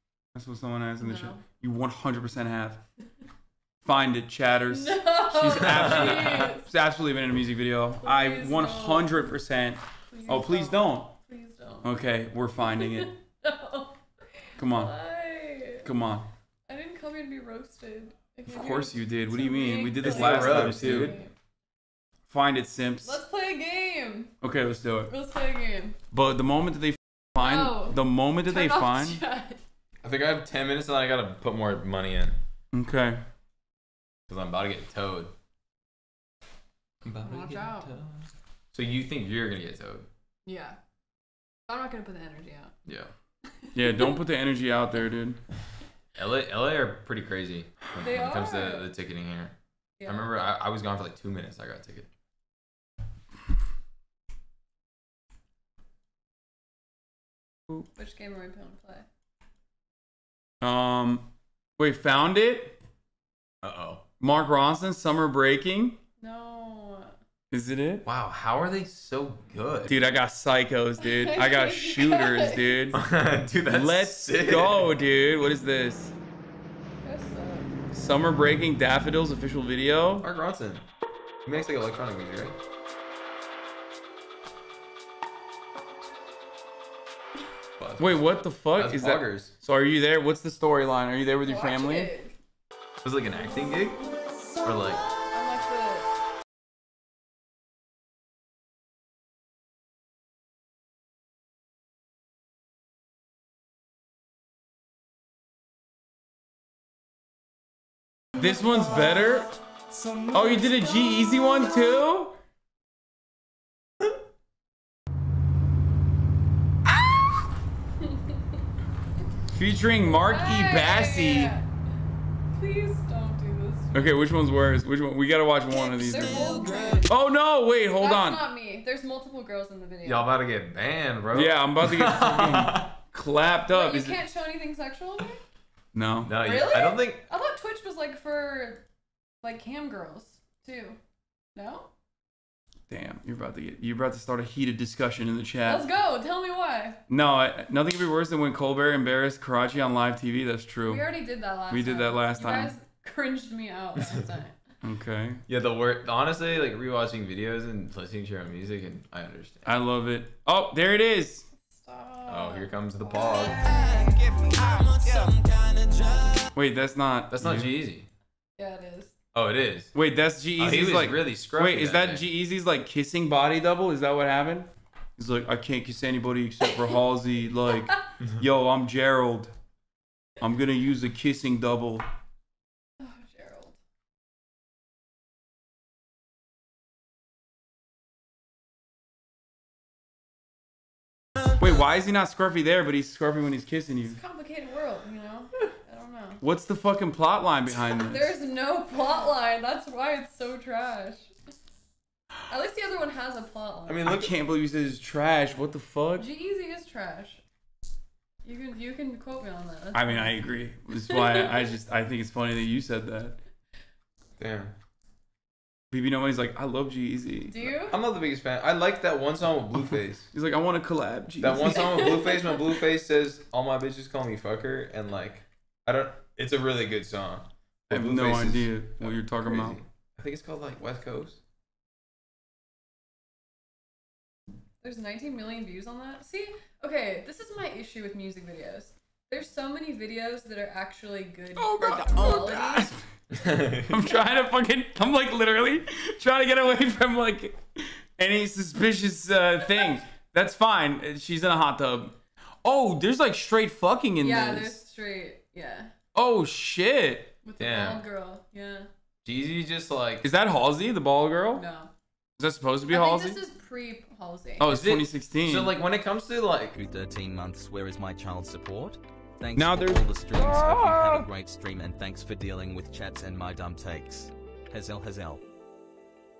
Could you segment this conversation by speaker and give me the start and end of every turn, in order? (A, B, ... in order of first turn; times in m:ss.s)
0:00.3-0:02.8 A
0:01.0-0:01.4 B
0:03.8-0:11.1 A
0:04.7-0:06.7 B
0:08.0-0:09.3 B
0:10.1-0:11.9 B
0:11.8-0:13.1 A
0:12.6-0:15.9 B
0:14.6-0:14.9 A
0:15.8-0:16.3 A
0:16.7-0:21.3 B
0:18.5-0:21.2 A
0:20.0-0:21.2 C
0:22.3-0:23.2 A
0:23.0-0:24.3 B
0:24.4-0:25.1 A
0:25.1-0:26.0 B
0:26.1-0:29.2 A
0:27.4-0:29.6 B
0:30.0-0:32.4 C
0:32.7-0:33.2 A
0:34.3-0:35.3 C
0:37.0-0:40.1 C
0:37.2-0:37.9 B
0:40.4-0:40.8 B
0:41.7-0:42.7 B
0:42.8-0:43.1 C
0:43.5-0:44.2 B
0:43.8-0:45.4 A
0:46.2-0:49.5 C
0:48.0-0:48.9 B
0:50.0-0:50.3 B
0:50.1-0:52.1 C
0:57.9-0:59.1 B
1:00.6-1:02.8 A
1:03.6-1:04.0 C
1:04.2-1:06.0 A
1:06.2-1:07.1 B
1:07.5-1:08.0 A
1:08.0-1:09.9 C
1:09.8-1:13.0 A
1:11.0-1:13.0 B
1:12.9-1:14.9 C
1:13.6-1:16.1 A
1:17.0-1:17.7 B
1:17.9-1:20.3 A
1:20.2-1:20.8 C
1:21.4-1:22.6 C
1:27.8-1:29.5 C
1:28.0-1:32.1 A
1:31.4-1:32.3 B
1:33.0-1:34.0 C
1:34.6-1:35.0 C
1:35.2-1:36.1 B
1:48.4-1:49.5 A
1:50.3-1:52.4 A
1:59.5-2:01.5 A
2:00.1-2:01.6 B
2:02.5-2:04.2 B
2:03.9-2:06.5 A
2:05.8-2:07.1 B
2:07.1-2:08.4 A
2:08.0-2:10.3 B
2:10.0-2:12.9 C
2:11.3-2:14.2 A
2:13.6-2:15.4 B
2:15.9-2:16.4 A
2:16.2-2:17.2 C
2:16.4-2:18.8 B
2:19.4-2:21.0 B
2:21.5-2:21.9 B
2:22.9-2:25.8 A
2:25.6-2:27.0 B
2:27.1-2:31.1 A
2:30.8-2:34.6 B
2:31.7-2:32.7 A
2:34.8-2:35.4 A
2:35.5-2:39.6 C
2:39.6-2:41.4 A
2:41.6-2:44.4 B
2:42.3-2:43.7 C
2:46.5-2:47.7 A
2:47.3-2:48.1 C
2:48.6-2:49.1 B
2:49.3-2:49.9 C
2:49.9-2:59.5 A
2:50.6-2:52.2 C
3:00.4-3:02.0 A
3:03.0-3:03.8 B
3:11.6-3:14.2 A
3:14.1-3:16.4 B
3:16.4-3:18.3 A
3:17.8-3:21.3 B
3:22.5-3:24.0 B
3:23.8-3:24.3 C
3:24.0-3:26.2 A
3:26.2-3:27.4 B
3:28.4-3:30.2 B
3:29.9-3:33.4 A
3:31.0-3:31.7 B
3:34.4-3:34.7 C
3:35.9-3:37.8 A
3:37.5-3:38.0 B
3:37.8-3:40.3 C
3:40.3-3:42.0 A
3:41.4-3:51.4 C
3:41.6-3:42.6 B
3:47.9-3:49.8 A
3:54.8-4:03.0 B
4:01.6-4:03.0 A
4:03.3-4:03.9 C
4:03.8-4:14.8 A
4:14.2-4:15.9 B
4:16.1-4:17.3 A
4:17.4-4:18.9 B
4:17.6-4:18.0 C
4:19.2-4:20.2 C
4:20.2-4:21.6 A
4:21.5-4:21.9 B
4:22.4-4:23.4 A
4:22.9-4:24.7 B
4:24.6-4:25.7 A
4:24.7-4:26.8 C
4:26.7-4:35.4 D
4:29.5-4:31.3 A